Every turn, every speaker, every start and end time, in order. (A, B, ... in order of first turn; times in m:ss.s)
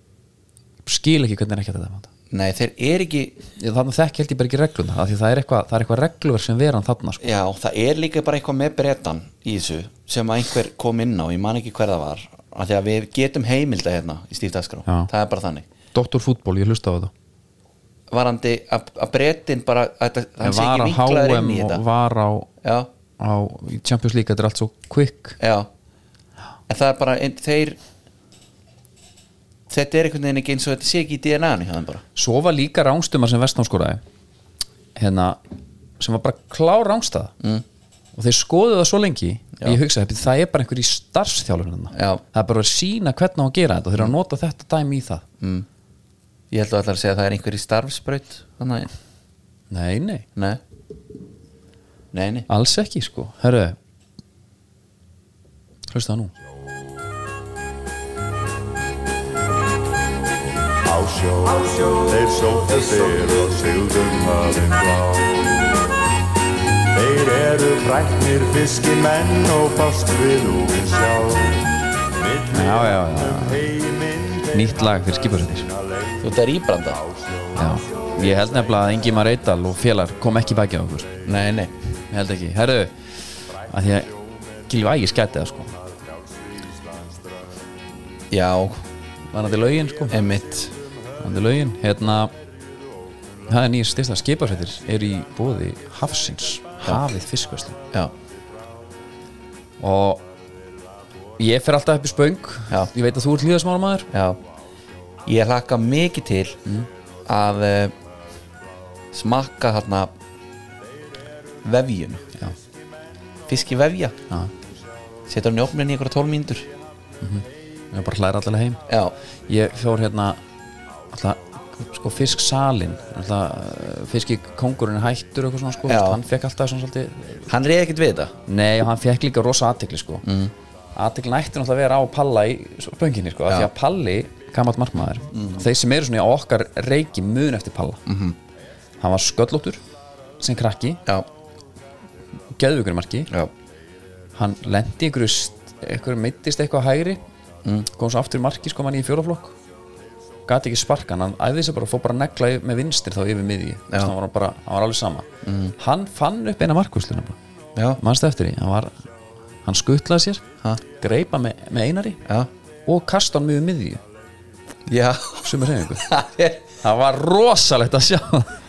0:00.8-0:02.1 A
0:02.3-0:03.4 B
0:03.6-0:07.2 A
0:07.2-0:15.6 B
0:14.8-0:15.1 A
0:15.9-0:17.1 A
0:18.1-0:21.8 B
0:20.4-0:22.5 A
0:22.6-0:22.9 B
0:23.2-0:25.4 A
0:25.4-0:25.7 B
0:26.7-0:27.8 B
0:29.7-0:32.0 B
0:32.1-0:34.0 A
0:35.0-0:35.4 A
0:36.0-0:37.3 A
0:38.1-0:45.2 A
0:41.9-0:42.2 B
0:45.4-0:45.7 B
0:46.5-0:48.9 B
0:49.7-0:50.2 A
0:52.1-0:52.5 B
0:52.5-0:53.8 A
0:55.9-0:56.3 A
1:00.8-1:05.8 C
1:06.9-1:14.7 C
1:12.5-1:13.7 A
1:14.5-1:15.7 A
1:15.6-1:16.1 C
1:16.2-1:17.0 B
1:17.2-1:18.5 C
1:17.5-1:21.1 A
1:21.2-1:21.7 B
1:22.1-1:24.1 A
1:24.7-1:25.7 A
1:28.3-1:28.8 B
1:29.3-1:30.2 A
1:30.1-1:30.7 B
1:31.2-1:32.3 A
1:33.5-1:37.8 A
1:39.8-1:40.2 A
1:41.4-1:44.1 A
1:44.1-1:44.4 B
1:45.2-1:46.6 B
1:47.3-1:47.9 B
1:49.1-1:50.1 B
1:51.6-1:52.2 B
1:53.5-1:54.2 B
1:55.3-1:56.7 B
1:57.2-1:58.8 A
1:58.9-1:59.1 B
1:59.5-2:00.4 A
2:01.1-2:07.5 A
2:05.8-2:06.2 B
2:07.5-2:08.3 B
2:08.5-2:10.2 A
2:10.2-2:10.5 B
2:11.0-2:18.0 A
2:15.3-2:15.6 B
2:18.0-2:18.4 B
2:19.0-2:19.8 A
2:20.4-2:21.0 A
2:22.5-2:23.3 A
2:24.4-2:27.2 A
2:27.9-2:29.5 A
2:30.4-2:37.4 A
2:35.4-2:35.7 B
2:38.0-2:38.9 A
2:39.6-2:42.2 A
2:42.8-2:44.0 A
2:44.9-2:46.7 B
2:45.4-2:46.1 A
2:46.8-2:48.6 A